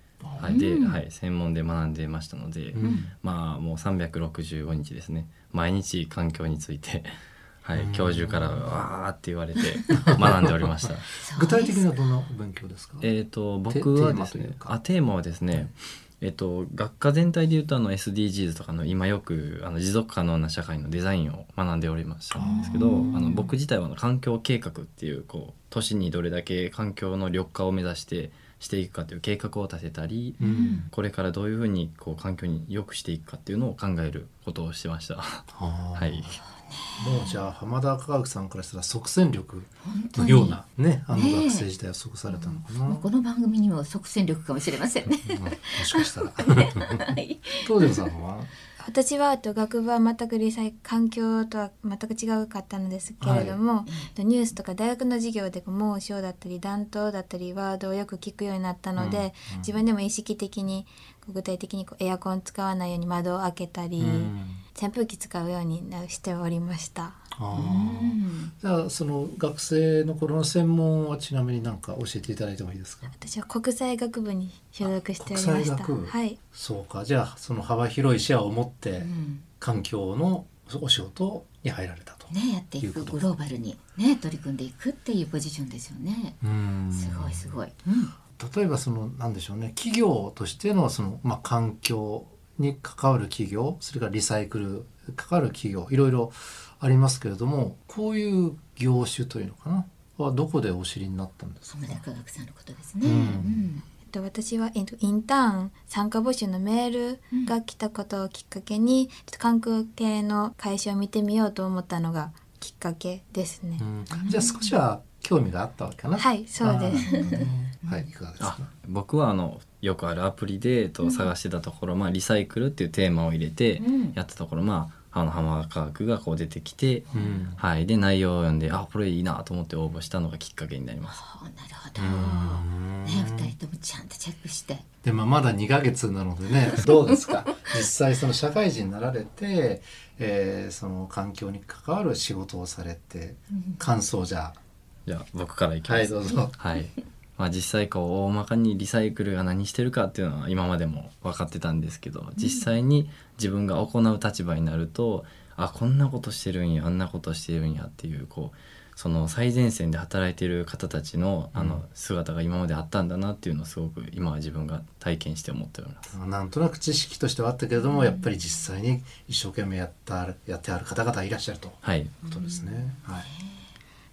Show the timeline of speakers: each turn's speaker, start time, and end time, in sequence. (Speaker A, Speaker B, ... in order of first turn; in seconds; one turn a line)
Speaker A: 0.2-0.6
Speaker B: 0.4-7.1
Speaker C: 0.5-1.0
Speaker A: 2.8-3.1
Speaker C: 2.8-3.1
Speaker B: 7.6-11.1
Speaker A: 7.8-8.9
Speaker A: 9.9-10.7
Speaker C: 11.2-11.9
Speaker A: 11.3-13.1
Speaker B: 13.0-36.4
Speaker A: 13.7-14.8
Speaker A: 22.4-23.4
Speaker C: 22.4-23.2
Speaker A: 30.4-30.9
Speaker C: 30.4-30.9
Speaker A: 35.5-36.3
Speaker C: 36.4-37.5
Speaker A: 37.0-43.0
Speaker C: 39.8-40.6
Speaker C: 41.1-41.7
Speaker C: 42.3-47.9
Speaker A: 45.3-47.0
Speaker A: 47.6-48.5
Speaker D: 48.8-67.2
Speaker A: 53.2-53.6
Speaker A: 59.0-59.7
Speaker A: 64.0-64.6
Speaker A: 67.4-73.1
Speaker C: 67.5-68.5
Speaker D: 73.1-76.4
Speaker A: 74.8-79.1
Speaker C: 79.0-79.5
Speaker A: 79.6-83.3
Speaker C: 82.3-86.4
Speaker A: 86.4-87.6
Speaker C: 86.9-88.2
Speaker A: 88.4-102.0
Speaker C: 101.7-103.8
Speaker A: 103.0-103.6
Speaker D: 104.1-113.8
Speaker A: 113.8-118.7
Speaker C: 114.1-114.7
Speaker D: 116.2-117.2
Speaker C: 117.0-118.1
Speaker B: 118.4-131.2
Speaker C: 121.0-121.3
Speaker C: 123.8-124.2
Speaker A: 127.1-127.6
Speaker C: 127.1-127.5
Speaker C: 131.0-134.9
Speaker A: 132.0-133.6
Speaker A: 135.0-144.6
Speaker C: 143.5-143.8
Speaker B: 145.1-166.1
Speaker A: 145.8-146.5
Speaker C: 152.4-152.7
Speaker A: 161.5-161.8
Speaker A: 166.1-173.3
Speaker B: 171.8-172.2
Speaker C: 172.2-173.6